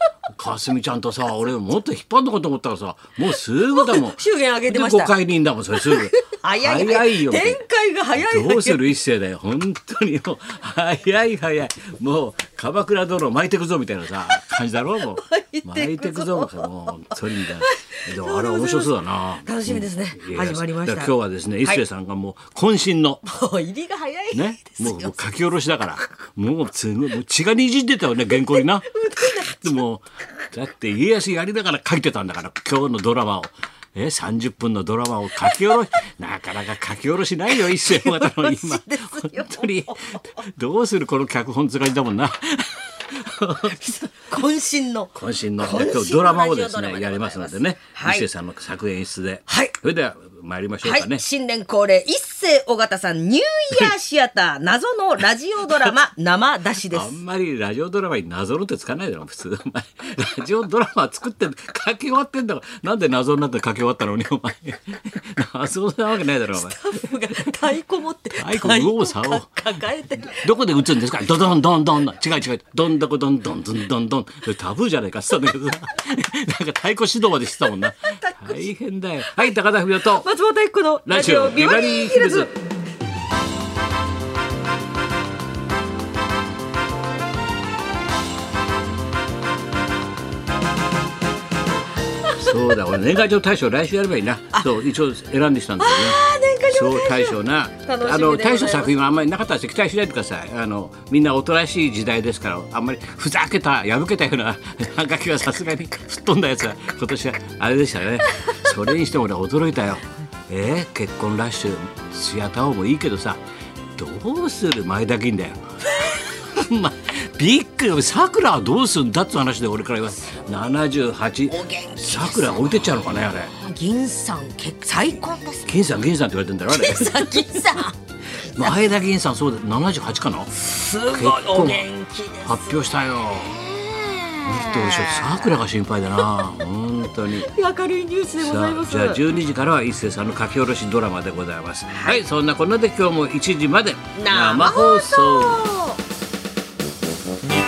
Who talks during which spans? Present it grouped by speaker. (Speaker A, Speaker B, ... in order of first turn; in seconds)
Speaker A: 0.3-7.6, 8.2-23.3, 24.3-43.9, 45.1-51.2, 56.9-66.8, 68.4-69.6, 70.2-80.3, 81.1-82.5, 92.3-96.2, 96.7-113.4, 114.0-123.5, 125.7-127.4, 128.6-130.5, 131.1-131.9, 132.4-133.7, 134.4-137.5, 138.4-145.6
Speaker B: 3.7-5.1, 5.7-8.9, 15.1-21.8, 23.2-25.2, 28.3-29.8, 37.5-40.2, 43.7-48.3, 49.5-49.8, 50.8-57.1, 66.5-70.5, 77.8-78.7, 79.4-82.5, 92.4-92.8, 95.8-99.0, 121.5-123.0, 123.5-125.8, 126.7-128.8, 130.5-135.6, 137.2-139.2, 141.9-142.2, 144.2-146.0